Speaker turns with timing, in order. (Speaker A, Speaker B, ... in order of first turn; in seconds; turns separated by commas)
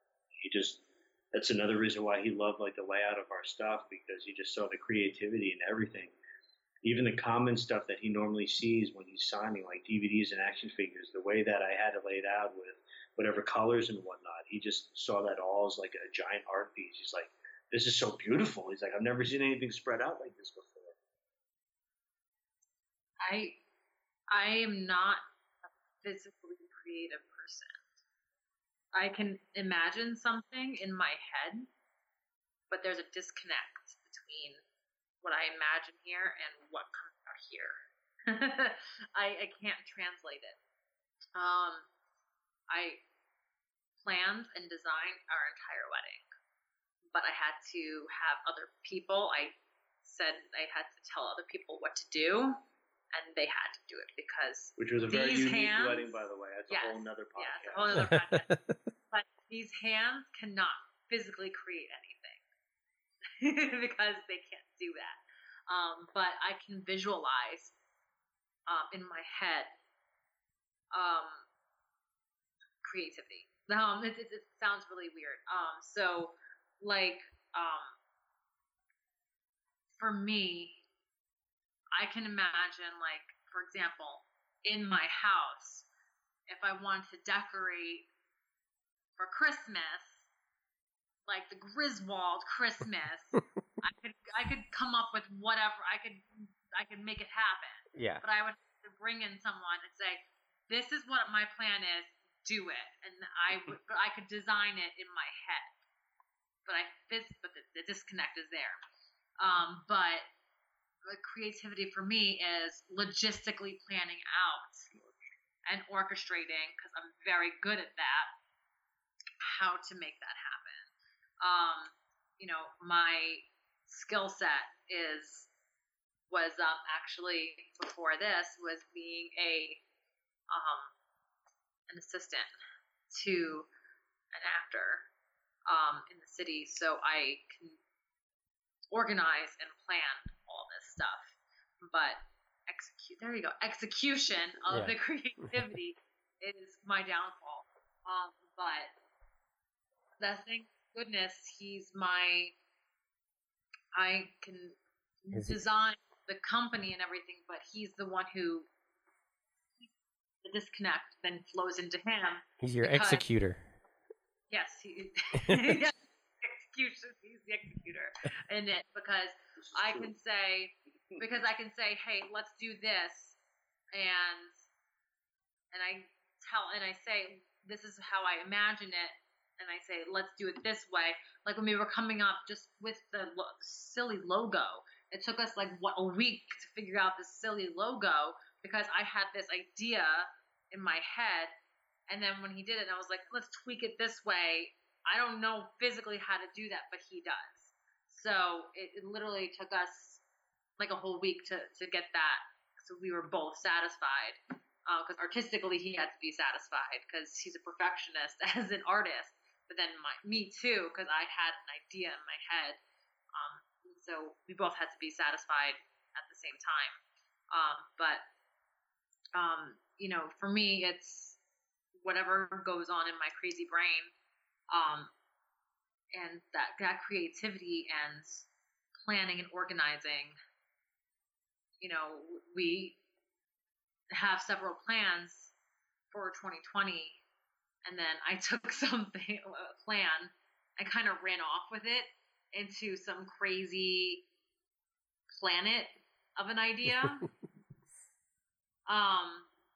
Speaker A: 0.4-6.1, Speaker A: 6.8-20.9, Speaker B: 23.2-23.6, Speaker B: 24.3-25.2, Speaker B: 26.0-27.9, Speaker B: 28.9-31.7, Speaker B: 32.7-34.6, Speaker B: 35.2-40.6, Speaker B: 41.3-41.9, Speaker B: 42.7-43.0, Speaker B: 44.0-46.2, Speaker B: 47.1-52.6, Speaker B: 53.1-56.1, Speaker A: 54.8-58.1, Speaker B: 56.7-58.5, Speaker C: 58.0-58.8, Speaker B: 59.1-62.4, Speaker B: 63.4-67.7, Speaker B: 68.7-69.7, Speaker B: 70.9-71.5, Speaker B: 72.8-78.0, Speaker B: 80.0-80.8, Speaker B: 82.0-85.9, Speaker B: 86.5-88.1, Speaker B: 89.2-90.2, Speaker B: 91.3-105.7, Speaker C: 97.9-98.2, Speaker B: 106.7-108.8, Speaker B: 109.4-110.2, Speaker B: 111.0-114.9, Speaker A: 114.9-115.2, Speaker B: 115.7-118.3, Speaker B: 119.4-125.5, Speaker B: 126.3-129.8, Speaker B: 130.5-130.9, Speaker B: 131.9-132.5, Speaker B: 133.1-133.7, Speaker B: 134.3-135.1, Speaker B: 135.7-137.8, Speaker B: 138.9-148.9, Speaker B: 150.2-152.5, Speaker B: 153.9-158.7, Speaker B: 160.4-163.2, Speaker C: 162.6-163.7, Speaker B: 164.5-173.4, Speaker C: 165.4-165.8, Speaker A: 169.7-170.1, Speaker B: 173.9-174.5, Speaker B: 175.7-191.5, Speaker B: 192.1-200.2, Speaker B: 200.8-212.8, Speaker B: 213.3-217.0, Speaker B: 217.5-218.2, Speaker B: 219.3-221.4, Speaker B: 222.0-224.1, Speaker B: 224.7-225.1, Speaker B: 226.1-228.5, Speaker B: 229.0-230.4, Speaker B: 231.8-233.0, Speaker B: 234.1-235.5, Speaker B: 236.1-237.2, Speaker B: 237.8-244.2, Speaker B: 245.3-247.3, Speaker B: 248.9-249.5